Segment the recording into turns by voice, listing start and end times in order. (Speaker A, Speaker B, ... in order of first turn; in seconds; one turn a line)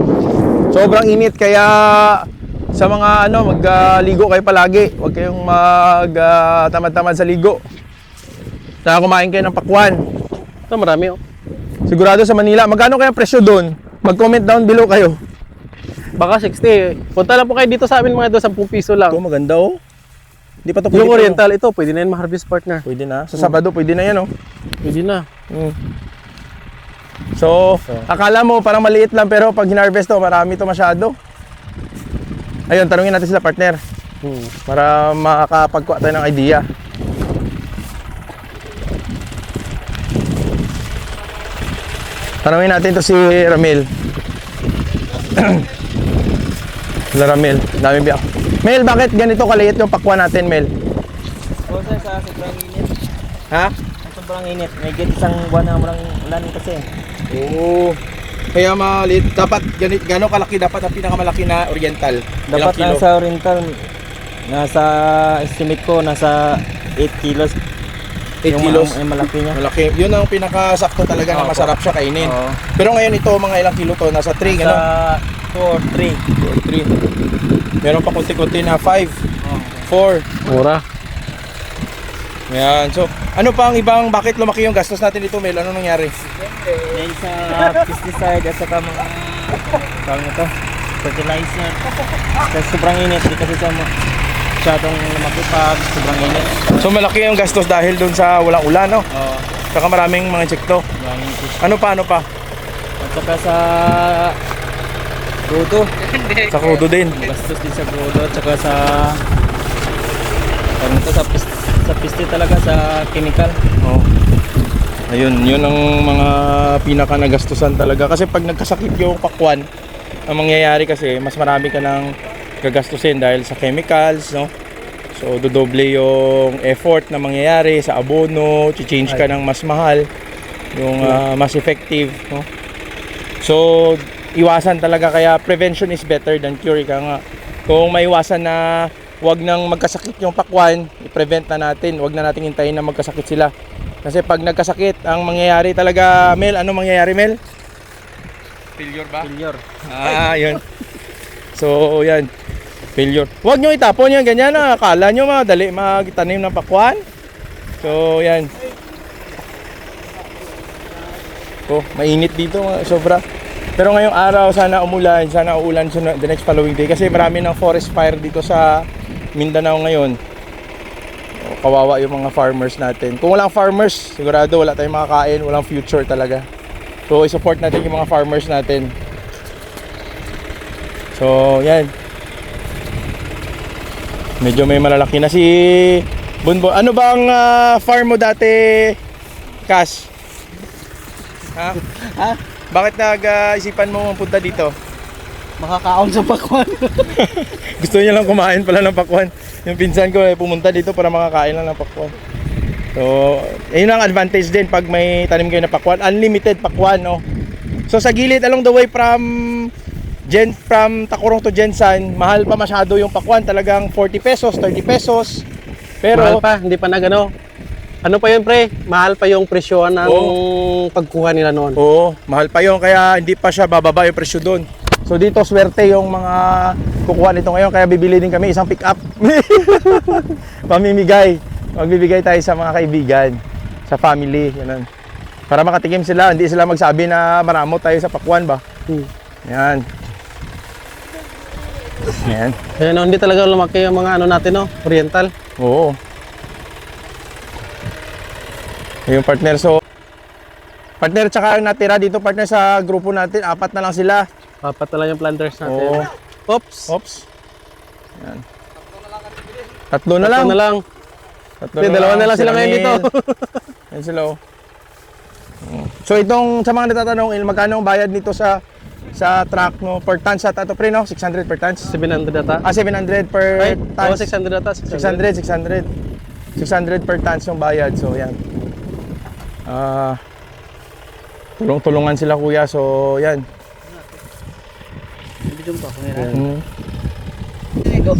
Speaker A: 0.7-7.6
Speaker A: 8.8-10.0
Speaker B: 10.7-11.2
Speaker A: 11.9-15.2
Speaker B: 16.2-19.2
Speaker A: 19.1-19.8
Speaker A: 20.6-21.4
Speaker B: 20.9-23.6
Speaker A: 22.9-24.3
Speaker B: 24.8-25.2
Speaker A: 25.5-25.8
Speaker A: 27.4-31.1
Speaker A: 32.7-33.8
Speaker B: 34.2-34.5
Speaker A: 34.7-36.6
Speaker A: 42.4-43.9
Speaker A: 45.3-45.7
Speaker A: 47.1-50.7
Speaker C: 51.7-52.9
Speaker C: 54.0-56.9
Speaker A: 57.3-58.0
Speaker A: 58.5-63.0
Speaker C: 62.5-63.8
Speaker C: 64.5-67.6
Speaker A: 68.4-69.0
Speaker C: 68.5-69.6
Speaker A: 69.5-74.8
Speaker C: 71.3-72.6
Speaker C: 74.4-76.3
Speaker A: 76.4-76.9
Speaker A: 77.8-79.2
Speaker C: 79.4-79.9
Speaker A: 79.9-80.3
Speaker B: 80.5-80.8
Speaker A: 82.5-86.2
Speaker C: 86.9-90.5
Speaker C: 91.0-93.9
Speaker C: 94.6-96.8
Speaker A: 96.8-99.0
Speaker C: 99.1-99.5
Speaker A: 99.7-100.9
Speaker C: 101.0-101.7
Speaker A: 101.6-102.3
Speaker C: 103.0-104.4
Speaker C: 105.5-109.2
Speaker A: 106.5-107.2
Speaker C: 110.8-113.6
Speaker A: 113.8-114.1
Speaker A: 115.1-119.7
Speaker A: 120.3-124.5
Speaker A: 125.1-130.1
Speaker A: 130.8-132.5
Speaker A: 133.4-143.5
Speaker A: 144.0-147.4
Speaker A: 148.8-149.3
Speaker B: 149.2-149.6
Speaker A: 149.9-150.6
Speaker A: 151.6-152.3
Speaker A: 153.0-157.0
Speaker A: 157.8-158.5
Speaker A: 161.7-163.2
Speaker A: 163.8-170.2
Speaker A: 171.4-176.5
Speaker A: 177.1-178.9
Speaker A: 181.2-181.9
Speaker A: 184.4-189.0
Speaker A: 189.7-190.1
Speaker A: 191.6-194.8
Speaker C: 195.6-197.1
Speaker A: 197.1-202.1
Speaker A: 202.9-207.2
Speaker A: 207.9-209.7
Speaker A: 210.3-215.4
Speaker A: 216.0-216.4
Speaker B: 216.1-217.3
Speaker B: 218.0-221.8
Speaker A: 220.0-220.4
Speaker A: 221.8-234.9
Speaker A: 235.5-238.6
Speaker A: 239.4-239.9
Speaker A: 242.1-242.6
Speaker B: 242.8-245.3
Speaker A: 245.6-246.0
Speaker A: 249.1-249.8
Speaker A: 251.0-254.3
Speaker B: 254.6-256.9
Speaker A: 255.7-256.1
Speaker A: 256.9-257.3
Speaker A: 258.2-258.4
Speaker A: 259.9-260.6
Speaker B: 260.2-260.8
Speaker A: 261.6-263.1
Speaker B: 261.8-263.6
Speaker A: 263.9-264.4
Speaker A: 265.6-268.6
Speaker A: 269.1-271.9
Speaker B: 271.9-272.6
Speaker A: 272.6-274.3
Speaker B: 273.6-275.2
Speaker A: 274.9-275.9
Speaker A: 276.6-278.4
Speaker A: 279.7-280.2
Speaker A: 281.6-283.4
Speaker C: 285.5-286.3
Speaker B: 286.1-286.4
Speaker A: 286.3-286.6